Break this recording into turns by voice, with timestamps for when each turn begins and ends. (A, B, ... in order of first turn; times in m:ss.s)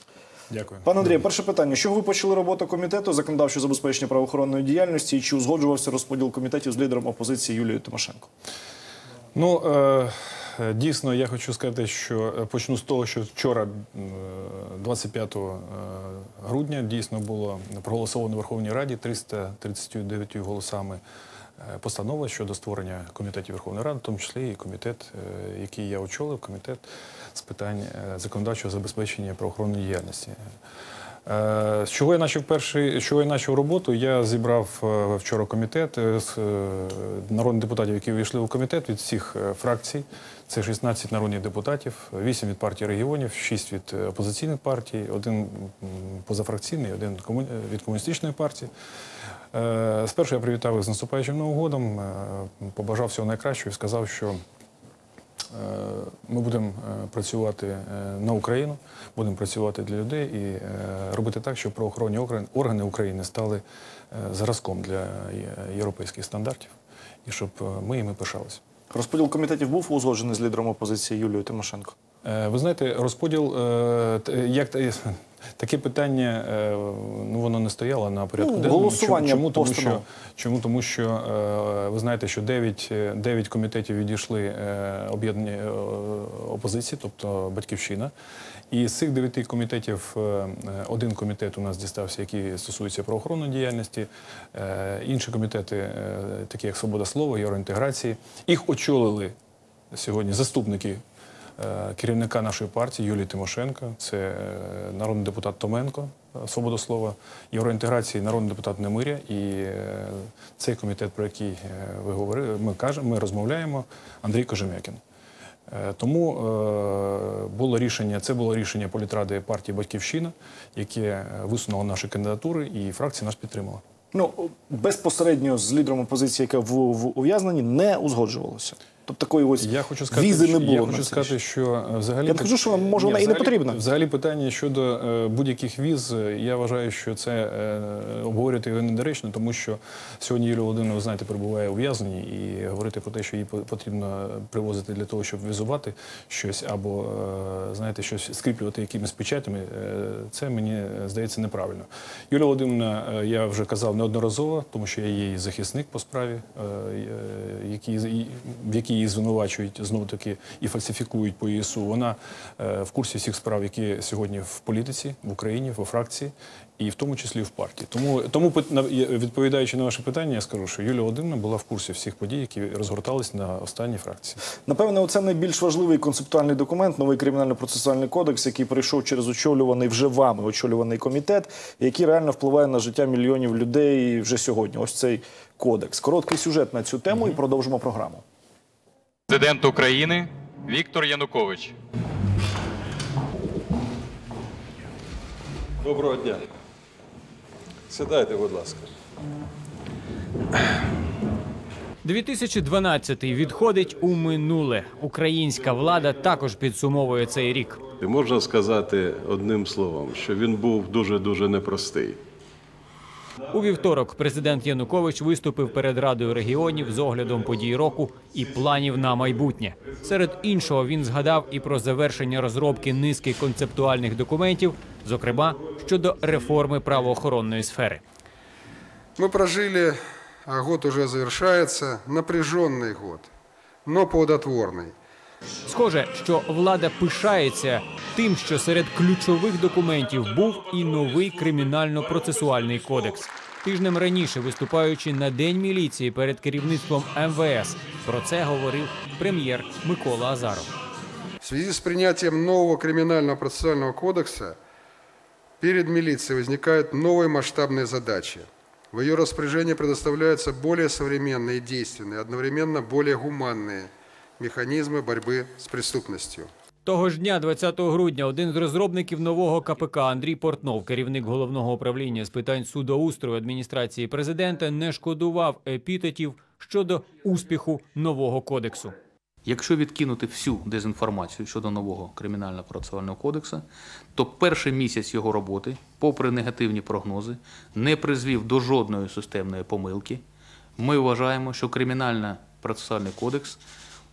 0:00.5-0:00.9 A
0:00.8-0:08.3 B
0:09.4-0:21.0 A
0:21.6-0:26.8 A
0:27.4-0:30.4 A
0:31.3-0:48.7 A
0:49.5-0:54.4 A
0:55.5-1:06.7 A
1:07.2-1:08.6 A
1:08.9-1:12.0 B
1:12.2-1:28.1 A
1:18.4-1:20.0 B
1:28.7-1:39.3 A
1:39.9-1:41.0 A
1:41.6-1:55.0 A
1:55.7-2:03.8 A
2:04.1-2:11.3 B
2:09.6-2:54.4 A
2:12.3-2:13.8 B
2:54.7-3:08.2 B
3:09.3-3:11.8 C
3:15.8-3:16.4 D
3:17.9-3:18.9 D
3:22.0-3:27.8 E
3:28.0-3:32.2 D
3:33.5-3:48.0 E
3:49.2-3:53.3 F
3:53.8-3:54.9 F
3:55.7-4:10.7 E
4:11.4-4:14.6 F
4:15.6-4:26.5 F
4:26.9-4:39.0 E
4:39.5-4:50.2 G
4:50.8-4:53.6 G